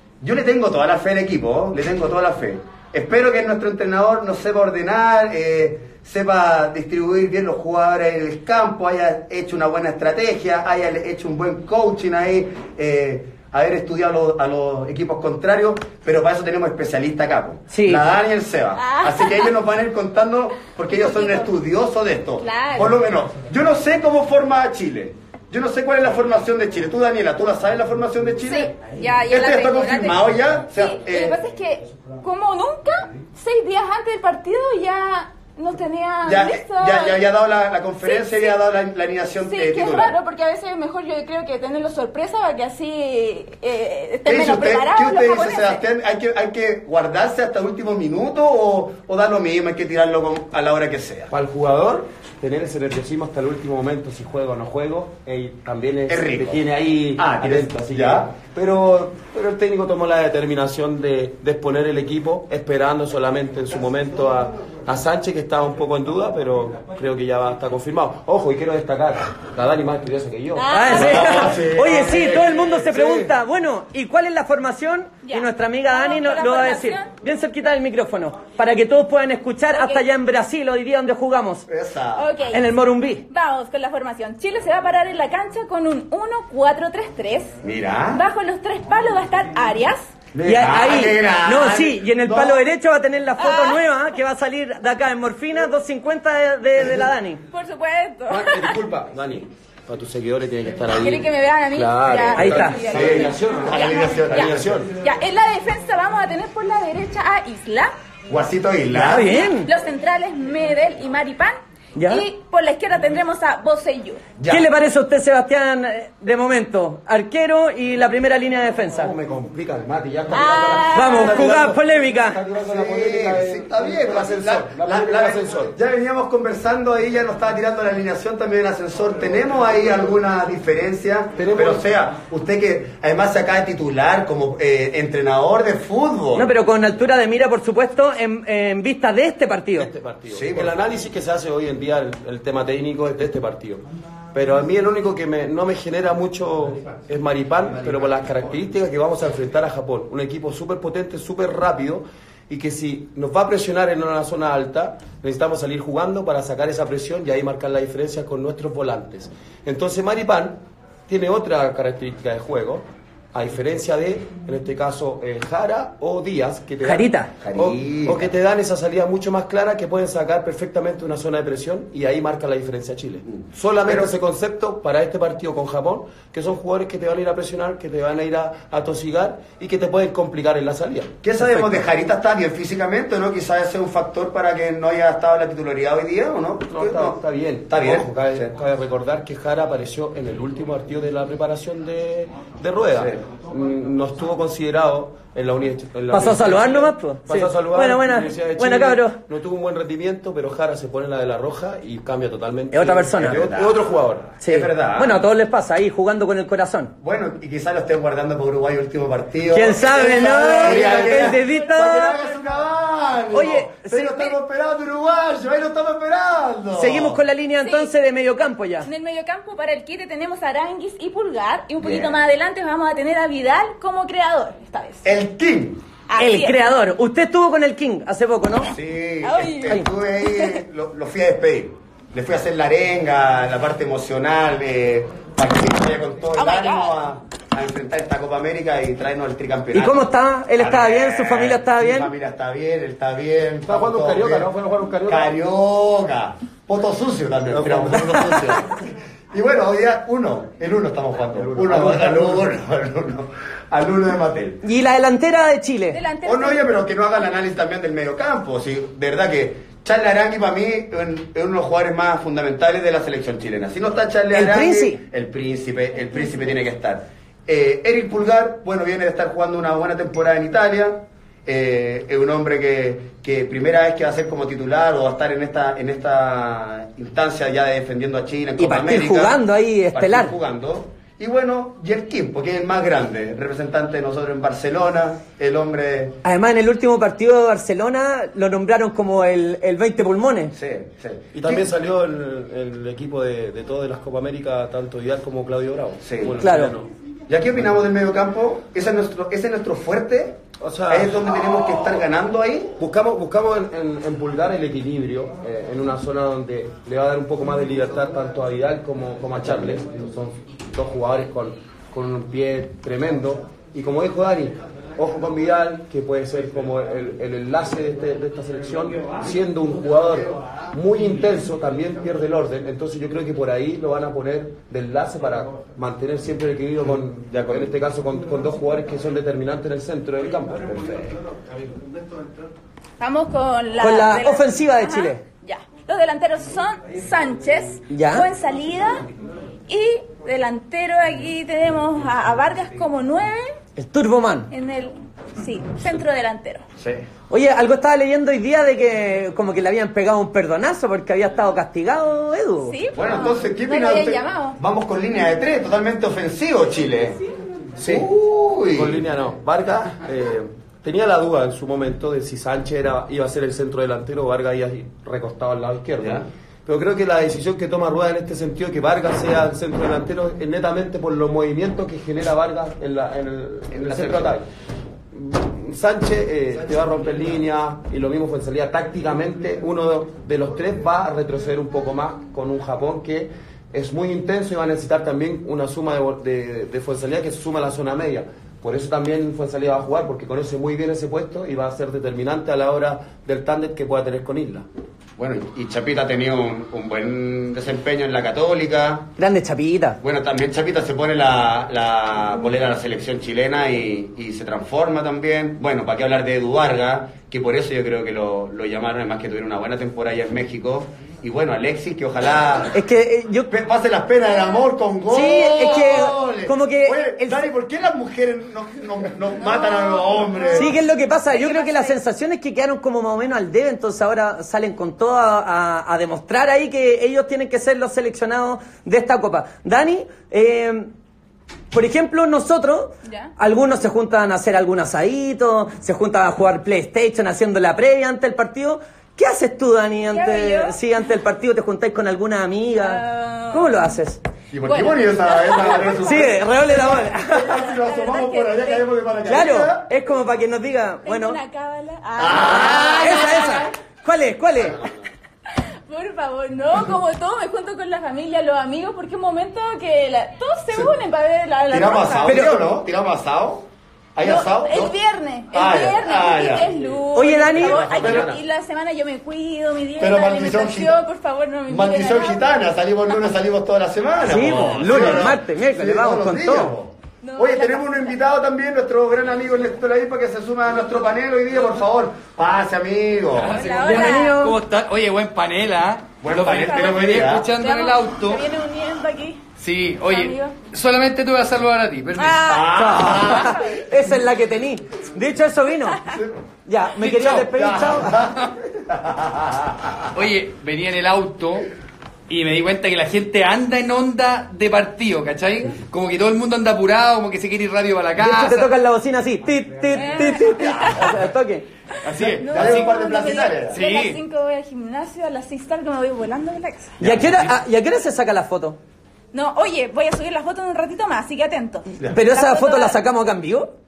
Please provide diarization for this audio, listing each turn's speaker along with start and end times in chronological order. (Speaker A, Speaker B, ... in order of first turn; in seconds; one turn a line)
Speaker A: 0.2-28.7
Speaker B: 17.7-18.1
Speaker C: 18.8-19.5
Speaker C: 20.9-21.5
Speaker C: 22.4-23.0
Speaker C: 28.4-37.2
Speaker A: 29.3-31.4
Speaker A: 36.2-40.1
Speaker C: 38.0-38.6
Speaker C: 39.4-45.8
Speaker A: 44.2-51.3
Speaker D: 51.3-73.3
Speaker A: 56.1-56.6
Speaker A: 57.1-58.3
Speaker C: 70.5-71.5
Speaker B: 70.7-81.7
Speaker A: 70.9-72.8
Speaker C: 75.2-77.1
Speaker C: 79.7-80.0
Speaker A: 81.7-82.3
Speaker C: 82.1-82.7
Speaker B: 82.5-83.2
Speaker C: 83.3-87.5
Speaker A: 87.6-88.2
Speaker C: 88.1-90.1
Speaker A: 90.3-92.6
Speaker B: 90.4-97.4
Speaker C: 93.4-93.8
Speaker C: 97.5-98.8
Speaker D: 98.3-104.9
Speaker C: 100.9-107.9
Speaker B: 102.3-102.8
Speaker A: 102.9-104.9
Speaker A: 108.3-109.5
Speaker B: 108.9-109.7
Speaker C: 109.1-114.2
Speaker B: 112.0-112.2
Speaker A: 114.4-114.7
Speaker B: 114.5-119.1
Speaker D: 119.0-125.7
Speaker C: 120.3-121.5
Speaker B: 120.9-122.4
Speaker A: 122.6-136.5
Speaker D: 131.3-131.8
Speaker B: 136.3-139.9
Speaker D: 139.7-181.8
Speaker A: 140.3-140.7
Speaker B: 166.8-167.3
Speaker A: 167.4-168.2
Speaker A: 181.2-187.2
Speaker D: 186.7-204.4
Speaker A: 187.7-188.5
Speaker A: 192.9-193.2
Speaker B: 196.1-199.2
Speaker B: 202.7-203.4
Speaker A: 203.2-203.8
Speaker B: 204.4-206.9
Speaker A: 204.4-205.2
Speaker A: 207.0-217.2
Speaker B: 209.5-212.3
Speaker C: 210.3-212.4
Speaker D: 210.9-211.2
Speaker B: 213.3-214.3
Speaker B: 216.7-218.9
Speaker C: 217.6-217.9
Speaker C: 218.8-225.1
Speaker A: 221.8-222.2
Speaker A: 225.0-225.8
Speaker C: 226.1-226.6
Speaker B: 226.2-228.7
Speaker A: 228.7-244.5
Speaker C: 229.2-230.6
Speaker C: 236.3-236.9
Speaker B: 239.7-242.1
Speaker D: 243.7-245.3
Speaker A: 245.1-254.6
Speaker D: 247.5-248.7
Speaker D: 251.4-252.4
Speaker B: 254.6-256.0
Speaker C: 255.9-256.6
Speaker A: 256.2-279.4
Speaker B: 264.3-265.0
Speaker B: 278.6-280.4
Speaker A: 279.9-286.1
Speaker B: 286.2-290.5
Speaker A: 290.5-291.6
Speaker D: 291.3-296.9
Speaker A: 296.0-296.4
Speaker B: 296.4-296.7
Speaker A: 297.3-302.7
Speaker D: 300.6-301.4
Speaker D: 302.8-331.2
Speaker A: 327.3-327.7
Speaker C: 333.0-339.0
Speaker B: 333.8-335.2
Speaker B: 337.9-338.3
Speaker C: 339.7-343.6
Speaker B: 343.8-344.5
Speaker C: 344.5-346.6
Speaker A: 346.8-347.1
Speaker B: 347.3-352.8
Speaker C: 352.6-354.6
Speaker A: 352.9-357.2
Speaker A: 357.8-359.0
Speaker D: 357.8-358.1
Speaker D: 358.7-374.5
Speaker A: 366.0-366.2
Speaker A: 373.7-374.3
Speaker D: 375.1-394.6
Speaker A: 395.2-399.1
Speaker B: 399.2-400.0
Speaker A: 400.0-412.8
Speaker B: 412.7-413.5
Speaker A: 413.5-420.7
Speaker C: 414.3-414.6
Speaker B: 415.1-417.5
Speaker C: 419.4-420.8
Speaker B: 420.5-430.9
Speaker C: 421.3-422.0
Speaker B: 431.7-444.2
Speaker C: 433.0-433.3
Speaker C: 440.1-440.8
Speaker C: 442.7-443.8
Speaker A: 444.5-449.9
Speaker C: 444.6-446.4
Speaker B: 445.9-447.6
Speaker C: 447.4-448.9
Speaker B: 449.2-451.4
Speaker C: 451.0-453.7
Speaker A: 452.2-453.6
Speaker B: 452.3-454.8
Speaker C: 455.5-462.6
Speaker A: 461.7-464.9
Speaker B: 462.2-462.5
Speaker C: 464.2-472.6
Speaker A: 465.5-466.8
Speaker B: 467.1-467.9
Speaker D: 467.6-468.4
Speaker A: 467.7-468.4
Speaker A: 470.0-471.0
Speaker A: 471.7-483.6
Speaker B: 474.2-476.7
Speaker E: 474.4-475.2
Speaker C: 477.2-478.2
Speaker E: 483.3-488.5
Speaker C: 483.4-484.4
Speaker B: 483.8-484.6
Speaker A: 486.2-487.5
Speaker C: 486.6-489.4
Speaker E: 489.6-492.7
Speaker C: 490.0-490.6
Speaker C: 492.2-493.9
Speaker A: 492.4-493.8
Speaker B: 492.7-496.0
Speaker A: 496.0-496.4
Speaker B: 496.6-498.2
Speaker E: 497.0-497.6
Speaker A: 497.4-500.1
Speaker E: 498.2-498.5
Speaker E: 500.1-501.7
Speaker E: 502.3-508.7
Speaker B: 508.2-511.6
Speaker C: 509.9-511.2
Speaker A: 510.5-510.9
Speaker E: 512.0-513.1
Speaker A: 512.2-513.8
Speaker C: 512.4-517.0
Speaker E: 513.7-514.2
Speaker A: 517.0-517.4
Speaker B: 517.0-518.8
Speaker C: 519.3-523.0
Speaker B: 522.1-523.7